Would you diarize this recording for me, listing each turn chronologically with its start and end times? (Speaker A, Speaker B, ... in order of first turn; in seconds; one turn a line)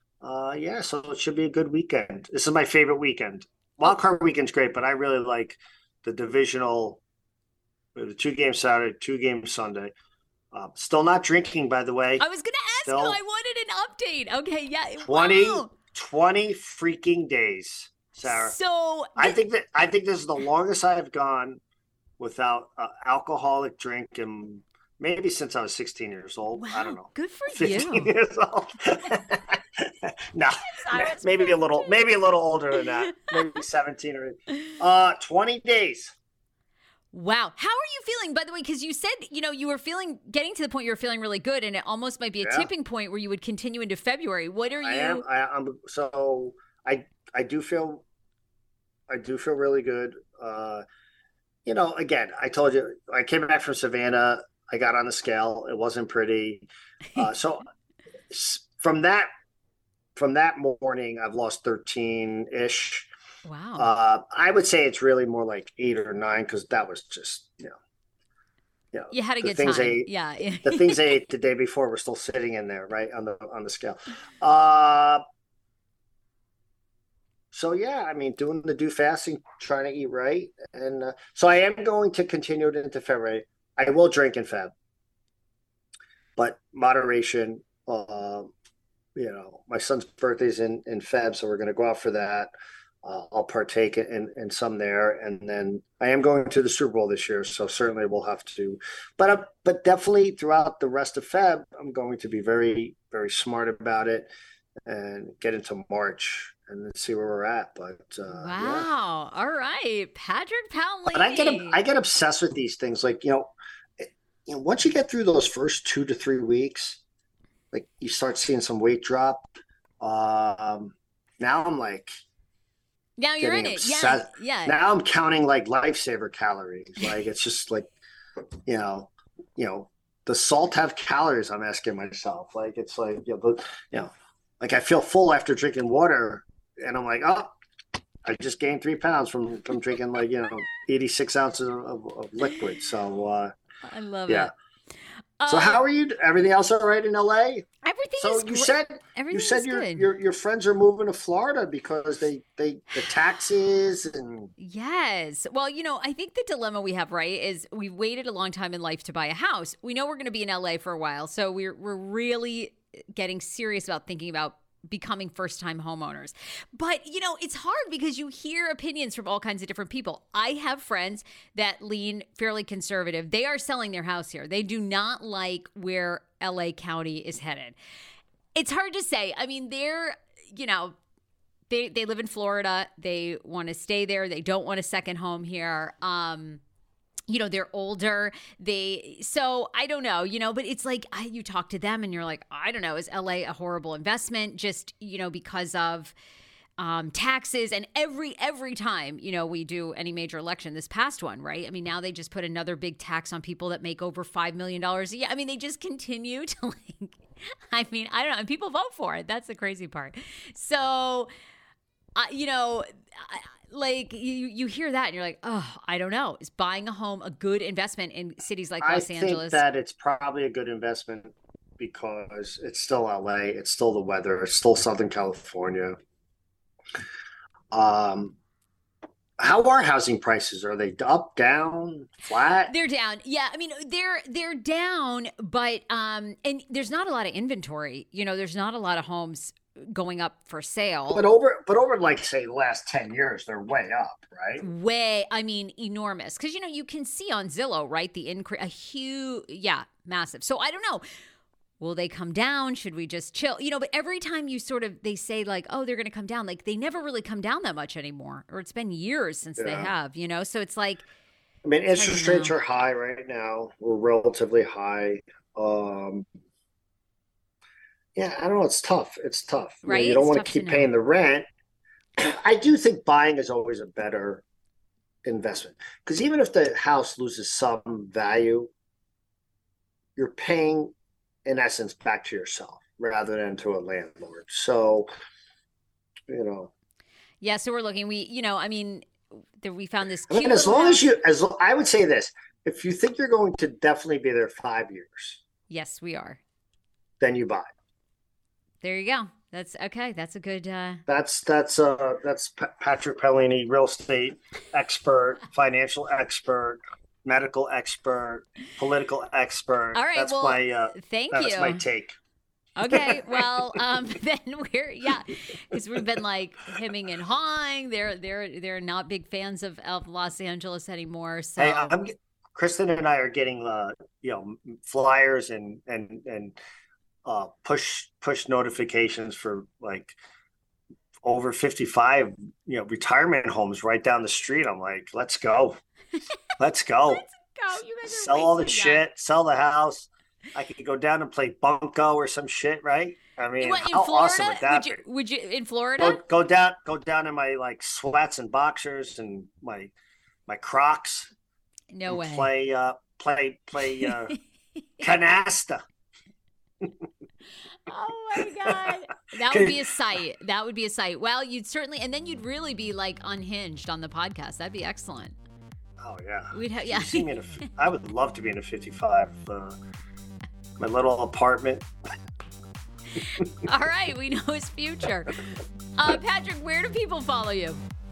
Speaker A: 0.2-7.0
Speaker A: 7.9-9.9
Speaker A: 10.5-12.2
Speaker B: 12.2-15.7
Speaker A: 12.8-13.2
Speaker A: 15.0-18.5
Speaker B: 18.2-19.4
Speaker A: 19.1-21.6
Speaker A: 22.2-36.1
Speaker B: 26.5-28.1
Speaker B: 30.6-32.0
Speaker B: 37.1-45.2
Speaker A: 42.4-42.7
Speaker A: 44.8-48.0
Speaker A: 49.1-50.8
Speaker A: 51.6-57.6
Speaker A: 58.3-59.3
Speaker A: 60.1-63.1
Speaker B: 63.4-63.9
Speaker A: 63.8-67.8
Speaker A: 68.9-70.1
Speaker B: 69.1-71.2
Speaker A: 70.6-75.2
Speaker A: 77.5-84.7
Speaker A: 86.4-88.5
Speaker A: 89.2-92.5
Speaker A: 93.0-104.3
Speaker A: 104.8-108.9
Speaker B: 108.3-111.8
Speaker A: 111.1-117.0
Speaker A: 117.7-122.1
Speaker B: 123.2-124.8
Speaker A: 123.4-127.9
Speaker A: 128.7-137.5
Speaker A: 138.2-143.5
Speaker B: 143.8-144.5
Speaker B: 145.4-145.8
Speaker A: 145.5-147.7
Speaker B: 147.8-150.1
Speaker A: 148.2-154.5
Speaker B: 154.6-177.8
Speaker B: 178.5-180.9
Speaker B: 181.7-186.6
Speaker B: 187.3-196.1
Speaker B: 196.8-207.2
Speaker B: 207.7-211.3
Speaker B: 212.2-219.6
Speaker A: 218.8-225.9
Speaker A: 227.7-228.3
Speaker A: 229.4-232.7
Speaker B: 232.7-241.2
Speaker A: 241.1-244.6
Speaker B: 244.6-251.0
Speaker B: 251.8-261.0
Speaker A: 259.6-259.9
Speaker A: 261.6-266.2
Speaker B: 261.9-262.5
Speaker A: 268.1-271.4
Speaker B: 269.8-270.9
Speaker A: 272.2-274.4
Speaker A: 275.2-278.7
Speaker A: 280.1-280.9
Speaker A: 281.4-285.1
Speaker A: 286.3-286.7
Speaker B: 287.4-291.1
Speaker A: 290.3-295.4
Speaker B: 295.7-296.4
Speaker A: 297.2-297.7
Speaker B: 298.8-301.0
Speaker A: 301.1-312.1
Speaker B: 309.9-311.8
Speaker B: 312.8-321.9
Speaker A: 312.9-313.8
Speaker A: 321.6-326.6
Speaker A: 327.2-330.2
Speaker A: 331.2-335.8
Speaker A: 336.6-337.2
Speaker B: 337.1-339.0
Speaker A: 338.1-345.0
Speaker B: 343.6-346.2
Speaker A: 346.0-349.9
Speaker A: 350.5-351.3
Speaker B: 351.9-352.5
Speaker A: 352.1-354.4
Speaker B: 354.0-354.3
Speaker A: 355.0-355.8
Speaker B: 357.9-365.3
Speaker A: 358.4-359.9
Speaker A: 366.0-369.8
Speaker B: 366.5-367.3
Speaker A: 370.8-371.9
Speaker B: 373.2-377.8